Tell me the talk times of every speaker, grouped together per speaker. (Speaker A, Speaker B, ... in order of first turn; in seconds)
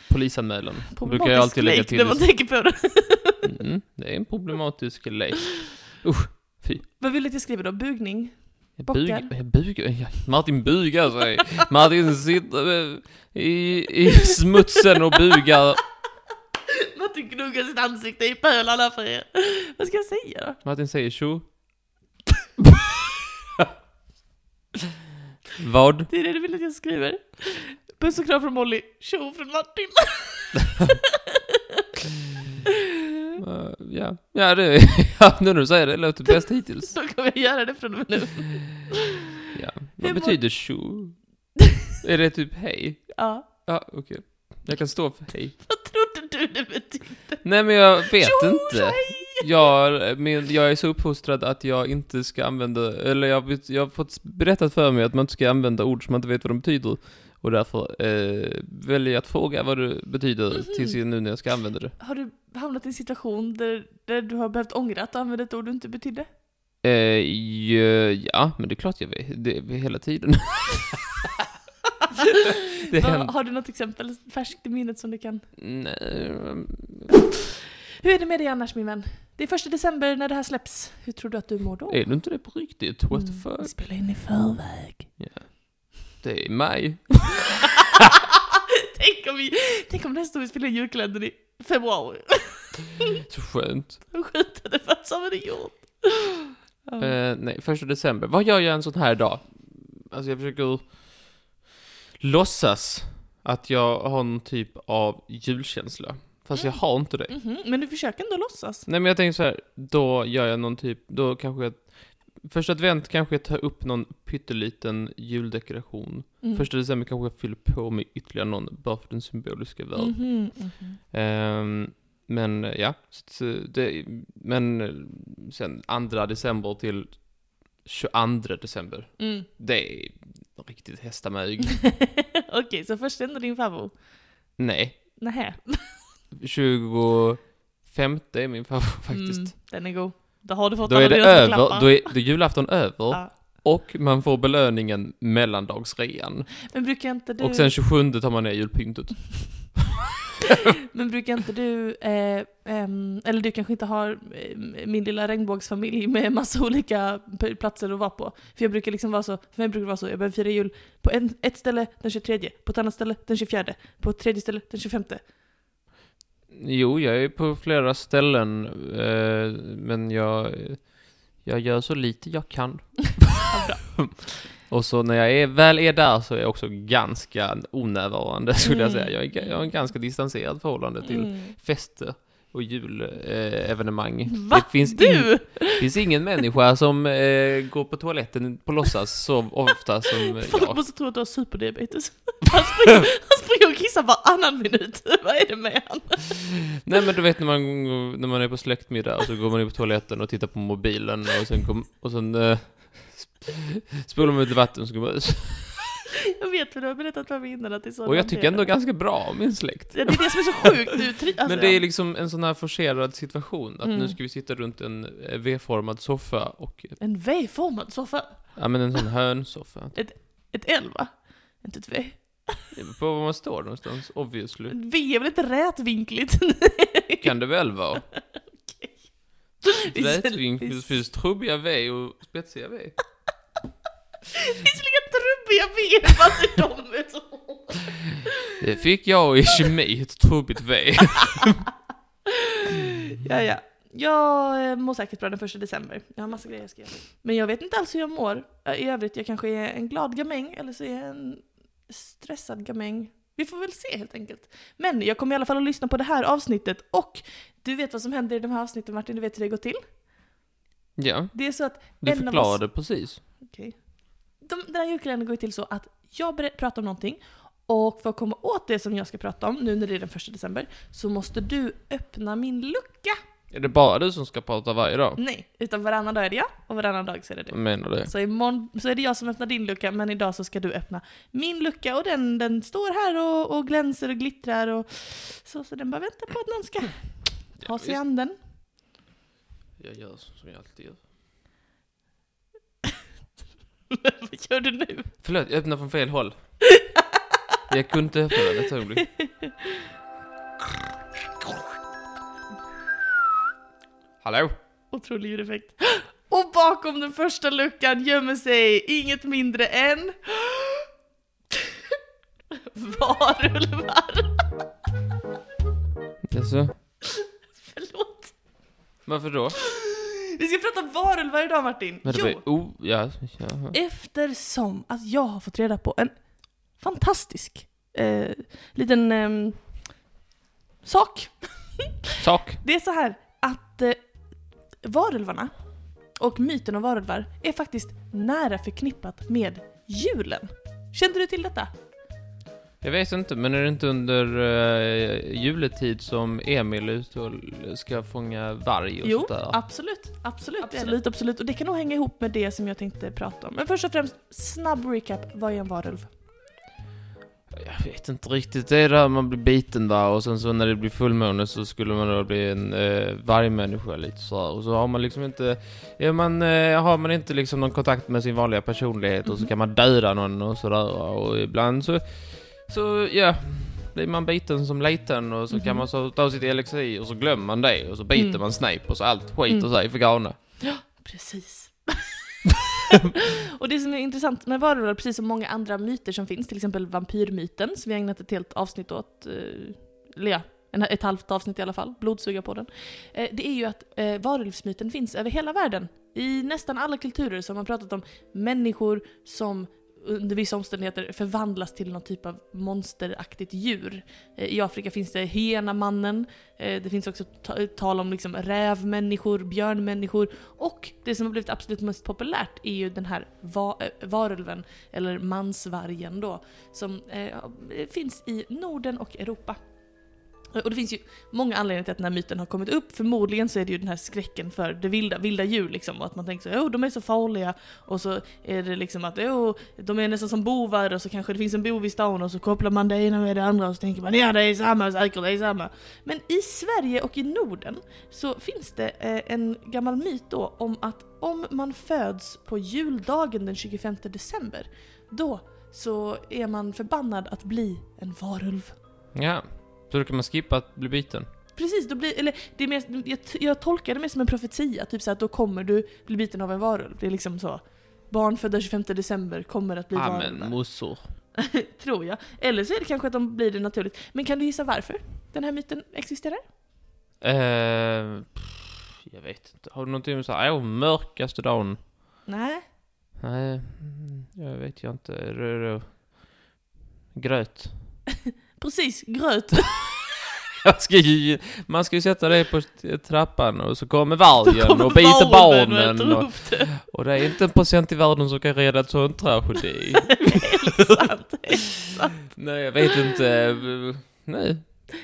Speaker A: 0.1-2.4, 3.4-6.9, 8.8-15.8, 20.6-21.6, 25.6-26.1, 33.4-37.0, 39.5-41.5, 42.0-45.7, 47.4-61.9, 66.8-71.3, 72.9-73.3, 75.6-77.1, 81.9-83.7, 85.2-88.0, 93.3-94.0, 97.0-101.3, 102.2-107.3, 108.9-131.9, 134.6-135.2, 136.3-139.5, 140.9-146.7, 147.4-150.0, 166.5-190.8, 196.8-205.8, 208.1-217.0, 218.6-220.0, 222.7-224.8, 227.2-228.1, 229.8-233.0, 238.6-241.7, 261.0-263.2, 273.5-275.2, 277.5-278.1, 287.6-288.0, 289.8-291.0, 295.2-296.5, 297.7-299.1, 304.2-304.5, 316.3-316.7, 319.1-319.6, 322.1-323.8, 332.2-332.6, 342.8-349.6, 350.6-351.0, 357.5-380.4, 449.1-451.3, 459.9-461.0, 467.2-471.8, 473.2-476.1, 477.1-477.8, 480.6-491.0, 492.3-494.6
Speaker B: 1.0-3.4, 7.0-9.3, 16.8-20.6, 26.1-31.8, 36.2-38.9, 40.0-40.4, 43.2-43.5, 45.6-49.5, 60.6-61.0, 62.0-66.3, 72.2-75.5, 77.1-82.1, 83.1-85.1, 87.9-93.0, 94.1-97.1, 106.5-108.9, 120.0-121.0, 129.2-129.5, 132.0-133.9, 135.2-136.0, 139.1-142.2, 146.7-147.7, 150.9-165.2, 173.5-174.2, 178.6-179.6, 181.0-181.6, 184.4-185.8, 190.4-196.7, 206.4-208.8, 209.9-211.8, 213.8-214.2, 217.0-219.0, 219.9-222.7, 224.7-227.3, 227.9-231.0, 234.3-238.1, 242.4-259.8, 261.3-263.8, 264.4-273.2, 275.2-288.4, 293.9-295.1, 296.8-297.2, 299.1-299.8, 304.9-310.9, 312.6-314.5, 317.2-318.4, 319.6-322.4, 323.7-329.9, 330.8-331.9, 332.6-334.1, 334.8-341.7, 349.0-356.1, 375.5-375.9, 378.1-378.4, 379.5-419.6, 420.5-448.8, 451.6-460.8, 461.4-466.4, 472.3-472.6, 478.6-479.8, 484.5-486.8, 490.2-492.4